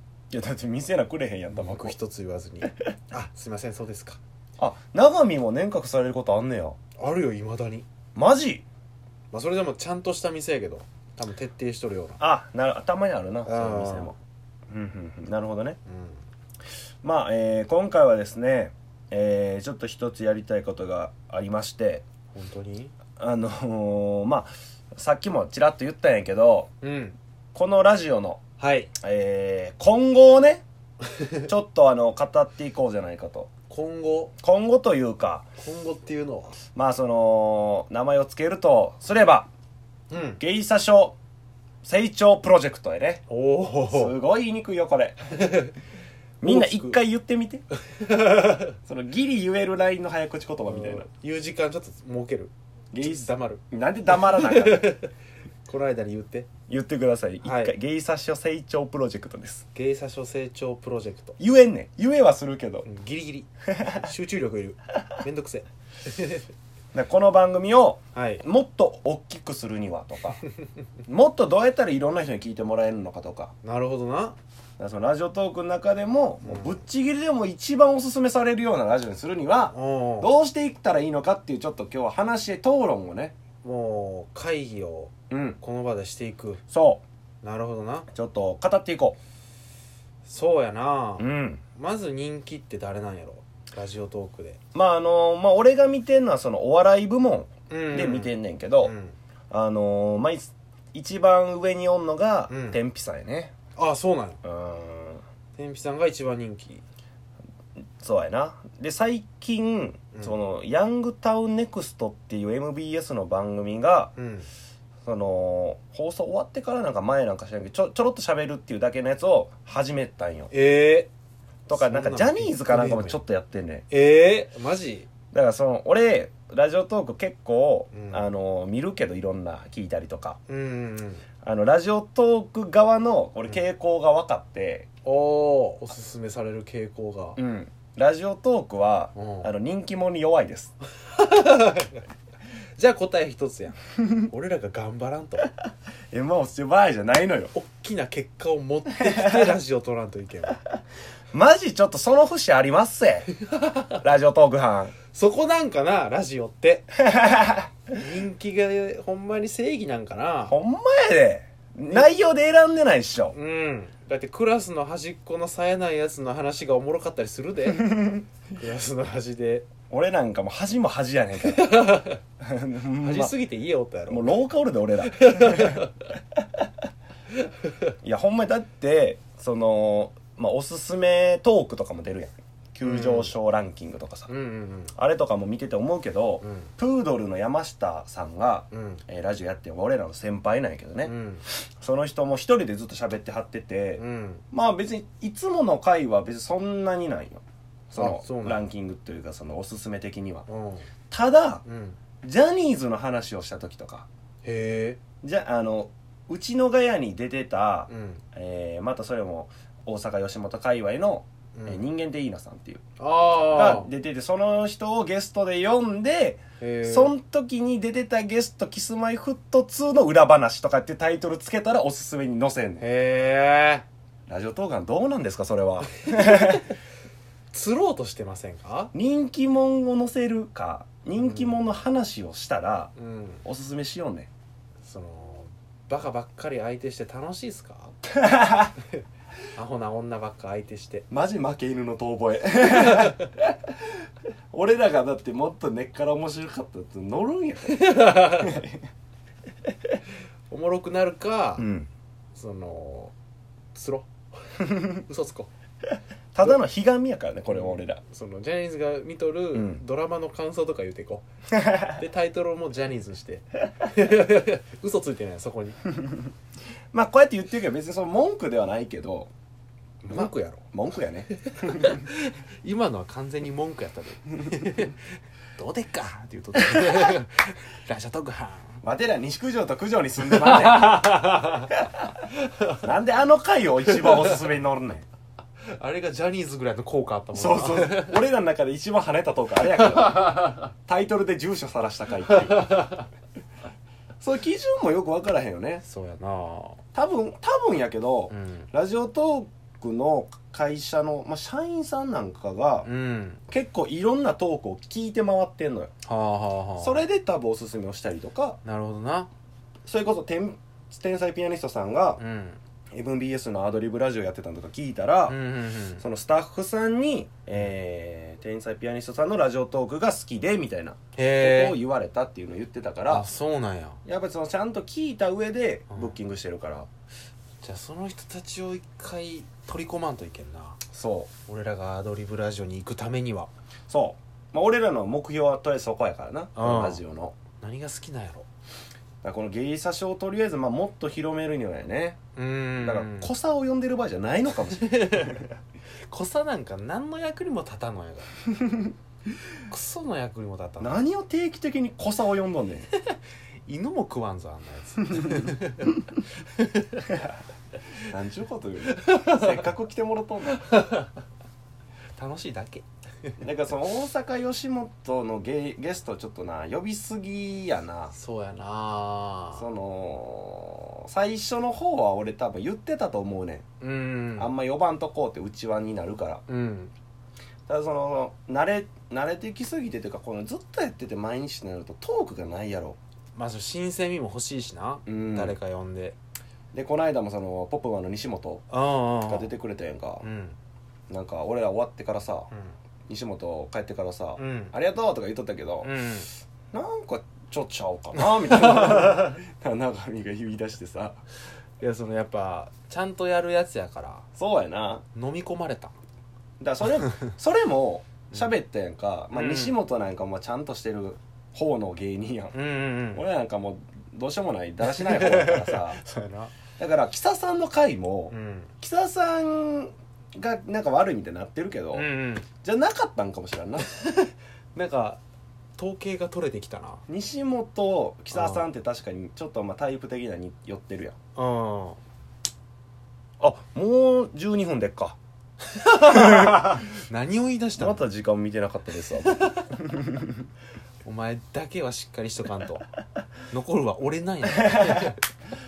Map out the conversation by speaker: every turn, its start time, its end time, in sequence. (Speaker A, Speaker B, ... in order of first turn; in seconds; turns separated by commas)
Speaker A: 0.3-1.9, Speaker B: 1.5-4.2, Speaker A: 4.6-6.8, Speaker B: 7.0-7.8, Speaker A: 8.1-8.6, Speaker B: 9.3-12.2, Speaker A: 12.2-14.1, Speaker B: 13.4-14.1, Speaker A: 14.7-15.8, Speaker B: 15.8-16.2, Speaker A: 17.0-22.0, Speaker B: 22.3-22.9, Speaker A: 23.2-26.7, Speaker B: 26.8-27.1, Speaker A: 27.5-28.4, Speaker B: 28.6-28.9, Speaker A: 29.0-30.6, Speaker A: 31.4-33.5, Speaker B: 33.7-34.3, Speaker A: 34.4-35.5, Speaker B: 35.6-36.6, Speaker A: 36.7-39.5, Speaker B: 40.1-40.4, Speaker A: 40.4-41.1, Speaker A: 41.8-43.2, Speaker B: 43.3-44.1, Speaker A: 43.9-45.2, Speaker B: 45.4-45.7, Speaker A: 46.4-47.6, Speaker B: 46.4-47.0, Speaker B: 47.9-48.7, Speaker A: 48.8-51.1, Speaker B: 50.6-55.1, Speaker A: 52.9-55.0, Speaker B: 55.7-56.5, Speaker A: 56.7-59.6, Speaker B: 57.4-57.7, Speaker B: 59.7-61.4, Speaker A: 61.4-62.9, Speaker B: 62.8-66.4, Speaker A: 63.7-64.0, Speaker A: 66.9-70.4, Speaker B: 68.1-68.4, Speaker A: 71.0-73.5, Speaker B: 73.6-74.4, Speaker A: 74.8-83.3, Speaker B: 76.4-76.8, Speaker B: 79.7-80.3, Speaker B: 83.6-86.6, Speaker A: 85.3-85.6, Speaker A: 86.7-87.0, Speaker B: 87.4-88.1, Speaker A: 88.1-89.2, Speaker B: 90.2-94.6, Speaker A: 91.2-91.6, Speaker A: 94.7-98.9, Speaker B: 97.7-99.1, Speaker A: 99.5-103.5, Speaker B: 102.5-102.8, Speaker B: 103.8-104.4, Speaker A: 104.4-105.2, Speaker B: 105.5-106.8, Speaker A: 108.0-114.1, Speaker B: 114.2-114.5, Speaker A: 115.0-120.5, Speaker B: 120.5-121.1, Speaker A: 121.7-123.8, Speaker B: 121.7-123.2, Speaker B: 123.9-125.1, Speaker A: 125.3-130.4, Speaker B: 127.9-128.3, Speaker B: 130.5-131.2, Speaker A: 131.4-134.9, Speaker B: 135.0-137.4, Speaker A: 137.3-140.7, Speaker B: 139.2-139.5, Speaker B: 141.1-142.0, Speaker B: 142.8-145.5, Speaker A: 146.1-147.5, Speaker B: 147.5-150.6, Speaker A: 149.0-149.5, Speaker A: 151.3-153.3, Speaker B: 153.5-153.9, Speaker A: 154.0-154.9, Speaker B: 155.1-156.9, Speaker A: 157.0-157.7, Speaker B: 157.9-160.6, Speaker A: 160.4-163.3, Speaker B: 163.3-169.7, Speaker A: 167.8-168.2, Speaker A: 169.9-171.8, Speaker B: 171.4-172.2, Speaker A: 172.4-173.3, Speaker B: 173.0-174.3, Speaker A: 174.1-175.9, Speaker B: 175.1-176.0, Speaker B: 177.7-177.9, Speaker A: 178.0-184.3, Speaker B: 182.8-183.3, Speaker B: 184.3-184.9, Speaker A: 184.9-200.5, Speaker B: 186.4-186.7, Speaker B: 188.7-189.0, Speaker B: 191.0-191.4, Speaker B: 194.0-194.4, Speaker B: 197.9-198.6, Speaker B: 200.5-200.9, Speaker A: 201.1-201.6, Speaker B: 201.6-202.0, Speaker A: 202.2-204.1, Speaker B: 204.4-205.0, Speaker A: 205.2-212.8, Speaker B: 207.9-208.2, Speaker B: 211.6-211.8, Speaker B: 213.0-213.9, Speaker A: 213.4-222.8, Speaker B: 216.6-217.1, Speaker B: 222.8-223.8, Speaker A: 224.3-226.7, Speaker B: 226.1-226.7, Speaker B: 227.5-228.9, Speaker A: 228.9-234.3, Speaker B: 231.2-231.6, Speaker B: 232.9-233.4, Speaker B: 234.8-238.0, Speaker A: 238.1-238.7, Speaker B: 239.5-241.1, Speaker A: 241.1-243.7, Speaker A: 244.5-248.8, Speaker B: 247.7-248.6, Speaker B: 250.5-251.7, Speaker A: 251.6-251.9, Speaker B: 252.3-253.1, Speaker B: 253.7-255.5, Speaker A: 256.3-258.0, Speaker B: 257.5-261.2, Speaker A: 259.5-259.8, Speaker A: 261.6-261.9, Speaker B: 261.8-265.8, Speaker A: 266.9-269.3, Speaker B: 270.0-270.6, Speaker A: 270.1-272.0, Speaker B: 271.4-275.0, Speaker B: 275.6-278.8, Speaker A: 276.7-277.1, Speaker A: 278.8-281.4, Speaker B: 280.3-281.8, Speaker B: 282.4-282.9, Speaker A: 282.8-285.0, Speaker B: 283.9-284.3, Speaker B: 285.7-288.2, Speaker A: 287.3-293.0, Speaker A: 294.2-295.8, Speaker B: 295.8-296.8, Speaker A: 296.9-302.9, Speaker B: 298.3-298.7, Speaker B: 302.8-303.4, Speaker A: 303.5-305.9, Speaker B: 306.0-307.0, Speaker A: 306.8-308.6, Speaker B: 308.6-309.3, Speaker A: 309.8-312.2, Speaker B: 312.2-312.6, Speaker A: 312.9-315.4, Speaker B: 315.3-316.0, Speaker A: 316.0-323.3, Speaker B: 321.1-321.8, Speaker B: 323.1-324.0, Speaker A: 324.0-326.9, Speaker B: 325.9-326.1, Speaker B: 327.6-330.8, Speaker A: 330.9-331.3, Speaker B: 331.5-333.5, Speaker A: 333.9-337.4, Speaker B: 336.6-337.0, Speaker B: 337.6-338.4, Speaker A: 339.2-342.2, Speaker B: 342.4-343.3, Speaker A: 342.8-345.5, Speaker B: 344.7-345.4, Speaker B: 346.1-348.3, Speaker B: 349.7-351.0, Speaker A: 350.8-352.9, Speaker B: 353.6-356.0, Speaker B: 356.6-357.1, Speaker A: 358.1-360.7, Speaker B: 359.0-359.5, Speaker B: 360.6-361.1, Speaker B: 362.2-362.8, Speaker A: 363.4-368.1, Speaker B: 368.1-369.6, Speaker A: 369.6-373.6, Speaker B: 373.8-374.5, Speaker A: 374.4-376.4, Speaker B: 376.5-376.9, Speaker A: 377.7-383.0, Speaker B: 383.4-386.1, Speaker A: 385.1-385.6, Speaker A: 386.7-388.7, Speaker B: 388.7-389.5, Speaker A: 389.2-390.2, Speaker B: 390.2-390.6, Speaker A: 391.1-392.5, Speaker A: 393.1-395.9, Speaker B: 394.4-394.7, Speaker B: 395.8-396.3, Speaker A: 396.7-401.2, Speaker B: 398.5-399.3, Speaker B: 401.8-404.2, Speaker A: 404.4-405.0, Speaker B: 405.1-405.9, Speaker A: 406.6-412.6, Speaker B: 409.3-409.8, Speaker B: 412.5-413.2, Speaker A: 413.1-416.0, Speaker B: 414.8-416.5, Speaker A: 416.8-422.1, Speaker B: 418.3-418.7, Speaker B: 421.9-422.5, Speaker A: 422.6-424.0, Speaker B: 424.1-425.2, Speaker B: 425.8-427.0, Speaker A: 427.1-431.1, Speaker B: 428.3-428.7, Speaker B: 431.4-432.0, Speaker A: 433.4-435.2, Speaker B: 435.7-438.0, Speaker A: 436.1-436.8, Speaker A: 437.8-440.3, Speaker B: 439.4-439.7, Speaker B: 441.0-442.9, Speaker B: 443.5-445.2, Speaker A: 444.6-445.1